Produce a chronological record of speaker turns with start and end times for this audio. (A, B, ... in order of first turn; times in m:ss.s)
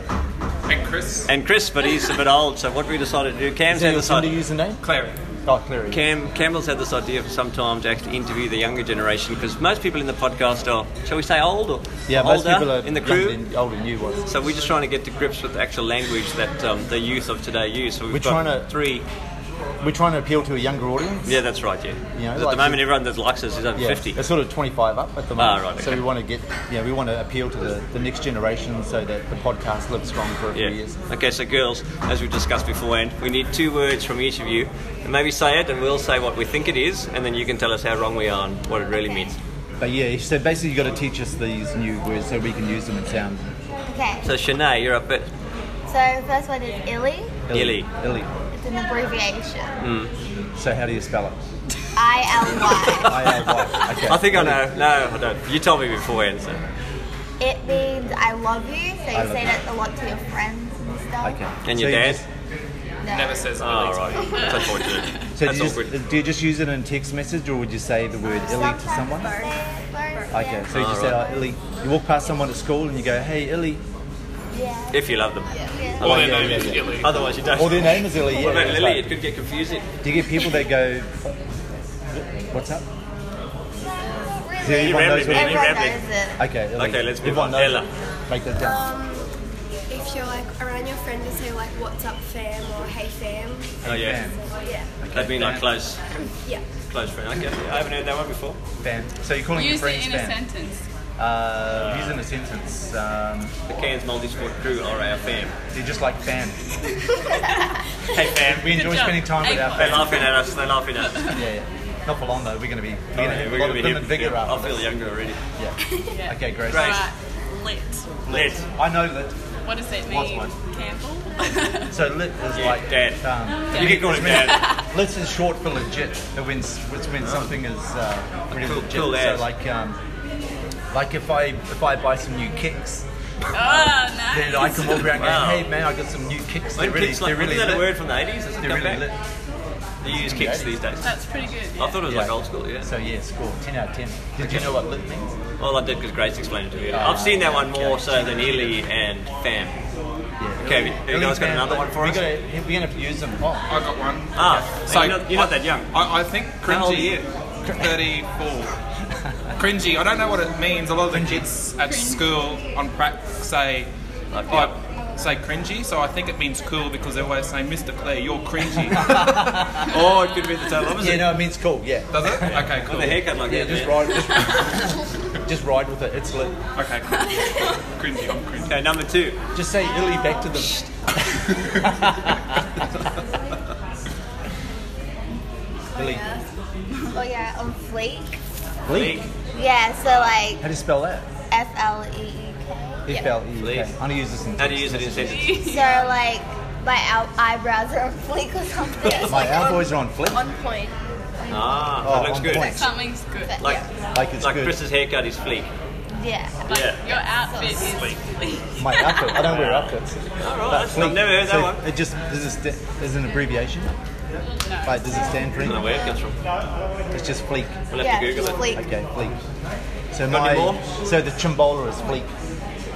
0:00.7-0:01.3 A
0:01.3-0:04.4 B
0:03.7-0:04.8 C
0:04.8-0:05.1 A
0:05.4-0:06.0 C
0:05.9-0:13.4 B
0:12.1-0:14.3 C
0:14.3-0:19.0 B
0:18.1-0:18.7 C
0:19.8-0:21.4 C
0:21.3-0:24.2 B
0:22.2-0:22.9 C
0:23.8-0:31.0 C
0:25.4-0:26.1 B
0:30.5-0:39.4 B
0:39.8-0:43.5 C
0:43.8-0:44.2 D
0:44.2-0:45.3 B
0:45.9-0:47.4 D
0:47.5-0:48.3 C
0:47.5-0:47.9 B
0:48.5-0:49.7 D
0:49.8-0:50.1 B
0:50.6-0:51.4 C
0:52.0-0:53.3 D
0:53.0-0:54.7 C
0:54.0-0:56.6 B
0:57.4-1:01.4 D
0:59.1-0:59.6 C
1:01.2-1:02.3 C
1:01.6-1:02.2 B
1:03.0-1:03.5 D
1:03.1-1:04.4 A
1:03.6-1:05.9 B
1:05.4-1:09.4 C
1:08.3-1:10.7 D
1:10.3-1:13.8 C
1:10.7-1:11.2 B
1:14.5-1:16.3 D
1:14.9-1:15.5 B
1:16.0-1:17.3 A
1:16.0-1:19.2 C
1:16.0-1:19.9 B
1:20.0-1:21.4 C
1:22.1-1:22.9 C
1:24.0-1:26.5 D
1:24.6-1:25.8 C
1:24.7-1:26.0 B
1:26.4-1:28.9 C
1:26.8-1:27.9 B
1:28.6-1:29.3 E
1:29.9-1:33.8 E
1:33.8-1:34.4 C
1:33.8-1:34.3 B
1:34.6-1:34.9 E
1:35.0-1:35.8 C
1:35.1-1:36.0 B
1:36.9-1:38.6 B
1:38.8-1:40.4 C
1:39.5-1:40.8 F
1:41.2-1:43.5 C
1:41.8-1:42.2 B
1:43.7-1:45.6 B
1:45.7-1:46.7 C
1:48.1-1:49.0 B
1:48.3-1:50.4 C
1:48.7-1:50.3 F
1:49.7-1:51.4 B
1:51.1-1:51.4 F
1:51.3-1:55.0 C
1:53.1-1:55.4 B
1:55.6-1:57.1 C
1:56.1-1:58.1 F
1:56.7-1:57.1 B
1:58.2-1:59.4 C
1:58.3-1:58.6 B
1:59.6-2:02.0 F
2:00.0-2:00.6 C
2:01.9-2:10.0 C
2:02.5-2:04.7 B
2:03.7-2:04.8 F
2:07.2-2:07.5 B
2:08.5-2:09.5 B
2:10.9-2:13.1 C
2:13.5-2:15.2 F
2:13.6-2:18.0 C
2:14.9-2:15.7 B
2:16.8-2:19.1 B
2:18.6-2:19.2 C
2:20.0-2:20.9 C
2:20.0-2:21.1 B
2:21.0-2:22.0 F
2:21.8-2:22.9 B
2:22.1-2:25.4 C
2:24.4-2:24.7 B
2:25.6-2:29.8 B
2:26.9-2:28.8 C
2:30.4-2:33.8 C
2:30.6-2:32.3 B
2:33.7-2:38.7 A
2:34.4-2:35.9 B
2:36.6-2:37.2 B
2:37.7-2:38.0 C
2:39.6-2:43.9 A
2:41.1-2:41.5 C
2:41.8-2:42.2 F
2:44.3-2:44.7 B
2:44.5-2:49.5 A
2:49.0-2:49.7 C
2:49.8-2:51.4 B
2:51.0-2:52.8 C
2:52.1-2:53.2 A
2:52.8-2:54.3 B
2:53.4-2:56.6 C
2:56.8-2:58.9 A
2:57.3-2:57.7 F
2:58.7-2:59.4 B
2:59.6-3:02.4 C
3:06.0-3:06.2 C
3:06.0-3:06.3 E
3:07.1-3:08.4 D
3:08.9-3:09.3 C
3:08.9-3:09.3 B
3:09.5-3:10.7 D
3:10.6-3:11.3 C
3:11.5-3:13.2 D
3:13.1-3:15.6 C
3:13.6-3:13.9 B
3:14.6-3:15.7 B
3:15.2-3:16.1 F
3:15.6-3:19.8 D
3:19.3-3:20.4 C
3:19.4-3:21.0 E
3:21.4-3:22.0 D
3:21.5-3:22.8 B
3:22.0-3:23.0 C
3:22.5-3:22.8 D
3:22.7-3:23.7 F
3:23.4-3:23.8 D
3:23.6-3:23.8 B
3:24.1-3:24.8 C
3:24.4-3:25.7 B
3:26.2-3:26.6 D
3:26.7-3:27.2 B
3:26.7-3:29.5 F
3:27.5-3:27.8 E
3:27.8-3:28.2 B
3:28.8-3:33.9 C
3:29.4-3:31.8 B
3:34.5-3:35.6 F
3:34.8-3:36.0 C
3:35.6-3:36.4 B
3:37.1-3:37.9 C
3:37.9-3:38.7 B
3:37.9-3:38.9 D
3:38.7-3:39.4 C
3:40.1-3:42.3 C
3:40.3-3:40.9 B